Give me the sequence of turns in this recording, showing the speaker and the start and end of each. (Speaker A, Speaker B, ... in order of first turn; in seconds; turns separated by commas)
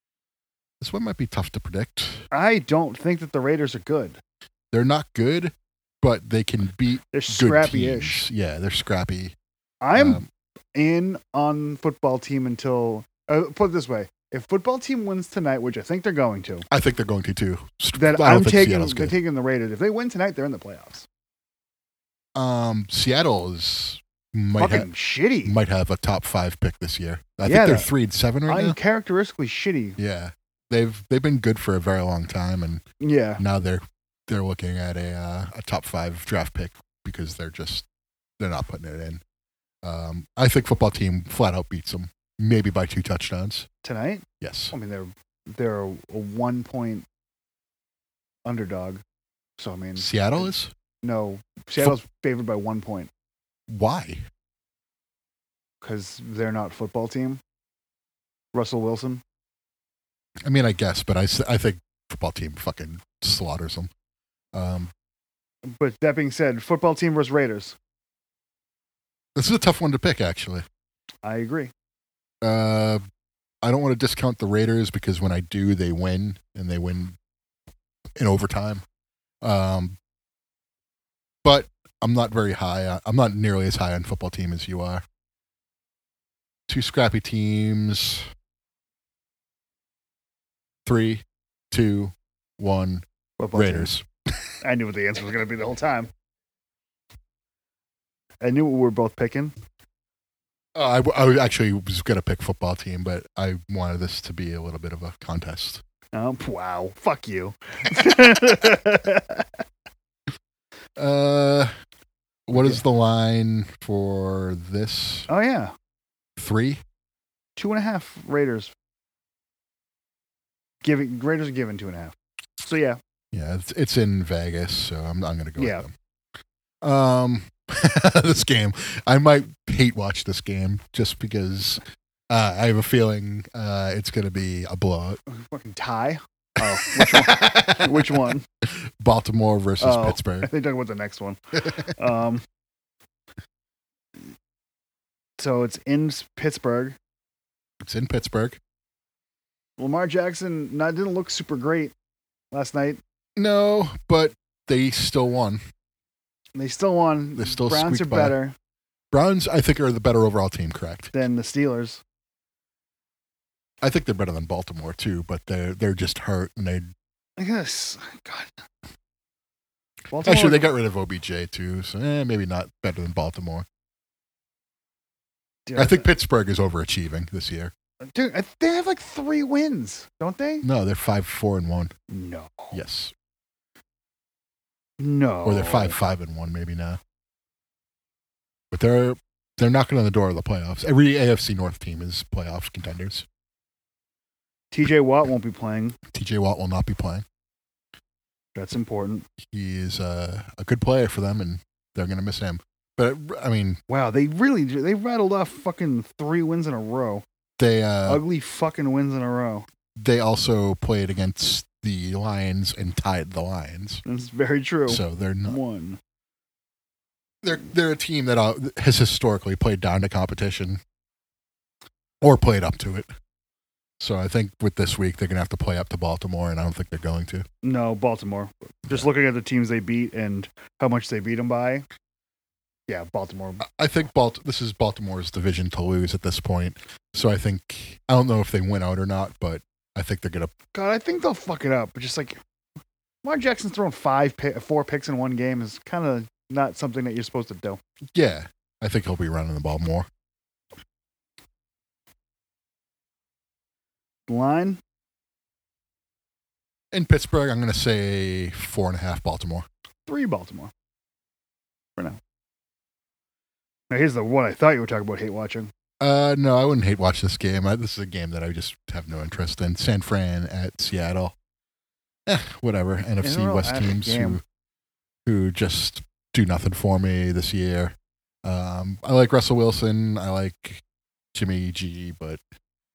Speaker A: 0.8-2.3, Speaker B: 2.3-4.2, Speaker A: 4.7-9.3, Speaker B: 7.1-8.2, Speaker B: 9.8-16.6, Speaker A: 9.9-10.2, Speaker A: 16.7-19.1, Speaker B: 17.9-21.1, Speaker A: 22.4-24.9, Speaker B: 24.6-25.5, Speaker A: 25.4-28.8, Speaker B: 27.4-27.9, Speaker B: 28.5-30.0, Speaker A: 30.0-32.8, Speaker B: 33.0-33.4, Speaker A: 33.4-37.9, Speaker A: 38.4-39.2, Speaker A: 39.8-43.7, Speaker B: 43.8-47.0, Speaker A: 44.4-44.7, Speaker B: 48.4-49.0, Speaker B: 49.6-50.5, Speaker A: 50.0-50.7, Speaker B: 51.0-53.1, Speaker A: 53.7-54.2, Speaker B: 55.8-57.4, Speaker B: 58.5-59.2, Speaker A: 60.4-63.9, Speaker A: 64.5-64.9, Speaker B: 65.7-67.8, Speaker A: 69.3-70.7, Speaker B: 71.2-71.7, Speaker A: 72.4-73.0, Speaker A: 73.6-77.2, Speaker A: 78.2-78.8, Speaker A: 79.4-80.0, Speaker A: 81.4-85.0, Speaker A: 86.7-88.3, Speaker A: 90.8-94.5, Speaker B: 93.4-93.9, Speaker B: 94.6-96.1, Speaker B: 98.4-99.5, Speaker A: 100.7-105.8, Speaker B: 106.1-109.6, Speaker A: 111.0-111.7, Speaker A: 112.5-115.3, Speaker B: 112.5-112.8, Speaker B: 115.3-115.7, Speaker A: 116.4-116.8, Speaker B: 117.6-118.7, Speaker B: 120.8-123.0, Speaker A: 123.3-125.9, Speaker B: 125.6-125.8, Speaker A: 126.8-135.2, Speaker B: 135.3-138.4, Speaker A: 136.8-140.5, Speaker B: 139.8-142.4, Speaker B: 145.4-147.0, Speaker A: 147.8-148.6, Speaker B: 149.8-151.9, Speaker B: 152.5-153.0, Speaker A: 153.4-155.6, Speaker B: 156.6-158.5, Speaker A: 157.4-158.4, Speaker A: 159.1-161.1, Speaker B: 161.1-162.0, Speaker A: 163.8-166.9, Speaker B: 167.4-168.6, Speaker B: 170.1-170.7, Speaker A: 170.2-173.7, Speaker B: 175.7-176.1, Speaker A: 175.8-177.7, Speaker B: 178.1-180.6, Speaker A: 180.6-181.9, Speaker B: 182.1-182.8, Speaker A: 182.7-183.1, Speaker B: 185.0-185.9, Speaker A: 185.4-187.0, Speaker A: 188.7-193.2, Speaker B: 194.7-196.0, Speaker A: 196.1-197.2, Speaker B: 198.5-199.3, Speaker A: 199.4-203.8, Speaker B: 203.9-207.2, Speaker A: 207.6-208.2, Speaker B: 208.1-209.7, Speaker A: 210.0-214.0, Speaker B: 214.0-216.0, Speaker A: 214.9-215.6, Speaker A: 217.4-220.8, Speaker A: 222.2-223.1, Speaker A: 224.0-227.4, Speaker B: 227.6-231.8, Speaker B: 232.9-233.7, Speaker A: 233.6-240.5, Speaker B: 240.7-242.4, Speaker B: 243.2-247.8, Speaker A: 248.1-250.1, Speaker B: 254.3-254.8, Speaker A: 256.9-259.6, Speaker B: 260.1-260.7, Speaker B: 263.9-265.7, Speaker A: 266.0-271.4, Speaker A: 272.2-274.4, Speaker B: 273.2-274.4, Speaker A: 275.2-280.8, Speaker A: 281.3-282.4